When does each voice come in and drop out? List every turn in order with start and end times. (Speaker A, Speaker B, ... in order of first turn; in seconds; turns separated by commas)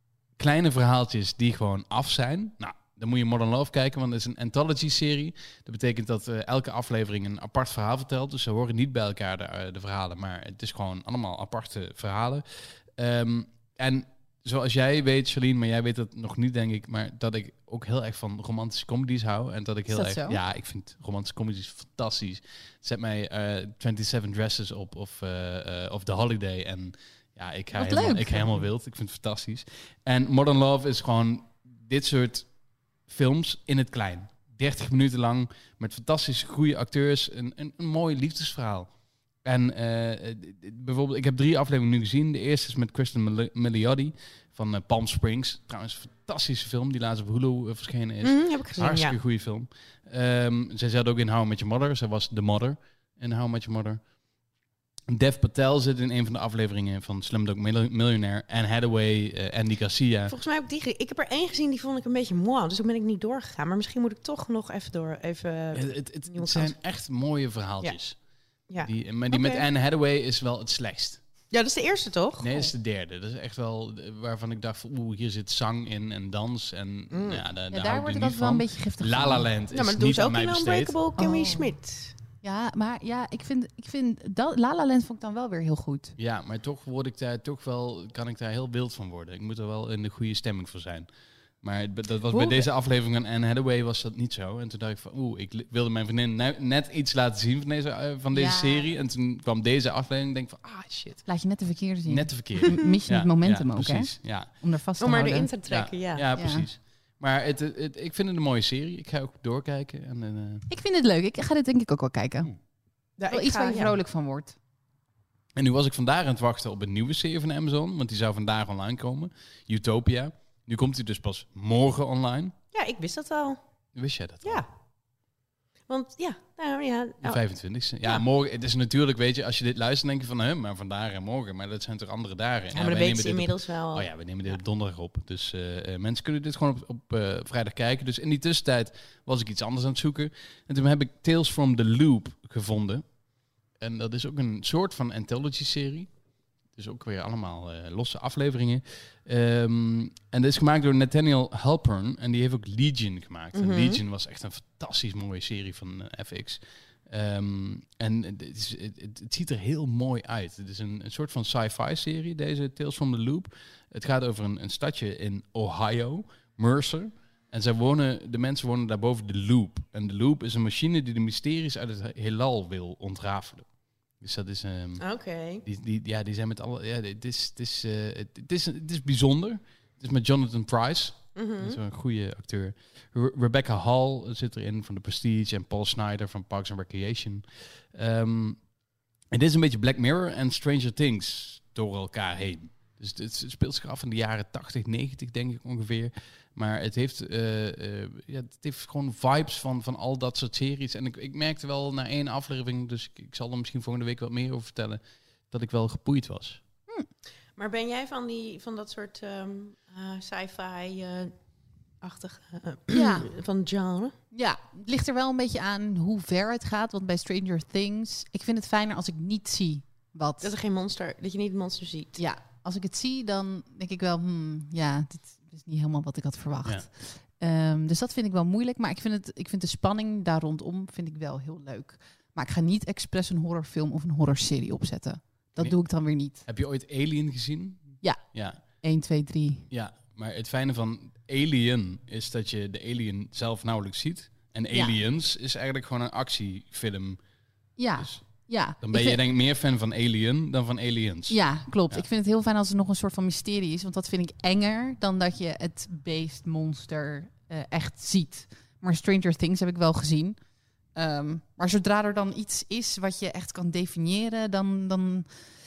Speaker A: 0.4-32.5, Speaker B: 19.9-20.4, Speaker B: 27.7-28.7, Speaker A: 33.1-38.9, Speaker A: 39.5-54.0, Speaker C: 48.2-49.2, Speaker A: 55.1-60.3, Speaker C: 60.3-66.7, Speaker A: 65.7-68.2, Speaker C: 68.7-69.6, Speaker A: 68.8-71.2, Speaker C: 71.5-72.7, Speaker A: 72.4-81.0, Speaker C: 77.1-77.4, Speaker B: 77.7-79.5, Speaker C: 79.7-82.1, Speaker B: 81.2-81.7, Speaker B: 82.4-86.2, Speaker A: 86.2-91.1, Speaker A: 91.6-101.3, Speaker B: 98.3-98.9, Speaker B: 101.3-105.5, Speaker A: 102.0-104.5, Speaker C: 105.0-106.3, Speaker A: 105.7-110.7, Speaker B: 106.4-106.7, Speaker B: 110.7-112.5, Speaker C: 113.2-114.0, Speaker B: 113.3-114.5, Speaker A: 115.5-122.5, Speaker C: 122.7-123.6, Speaker A: 124.0-124.6, Speaker C: 125.9-127.4, Speaker A: 127.2-143.1, Speaker C: 132.7-134.6, Speaker A: 143.8-146.1, Speaker A: 146.7-173.7, Speaker C: 153.6-154.0, Speaker A: 174.2-175.0, Speaker C: 175.0-175.6, Speaker A: 175.6-188.6, Speaker C: 181.4-181.8, Speaker A: 189.3-205.0, Speaker A: 205.5-206.6, Speaker C: 207.6-211.3, Speaker C: 212.0-214.1, Speaker B: 212.9-213.3, Speaker B: 214.3-220.5, Speaker C: 220.4-222.2, Speaker B: 222.2-236.4, Speaker A: 236.4-238.6, Speaker B: 238.0-239.7, Speaker A: 239.7-247.2, Speaker B: 247.8-249.2, Speaker A: 248.0-248.2, Speaker A: 248.8-252.0, Speaker B: 251.3-260.4, Speaker B: 260.9-265.3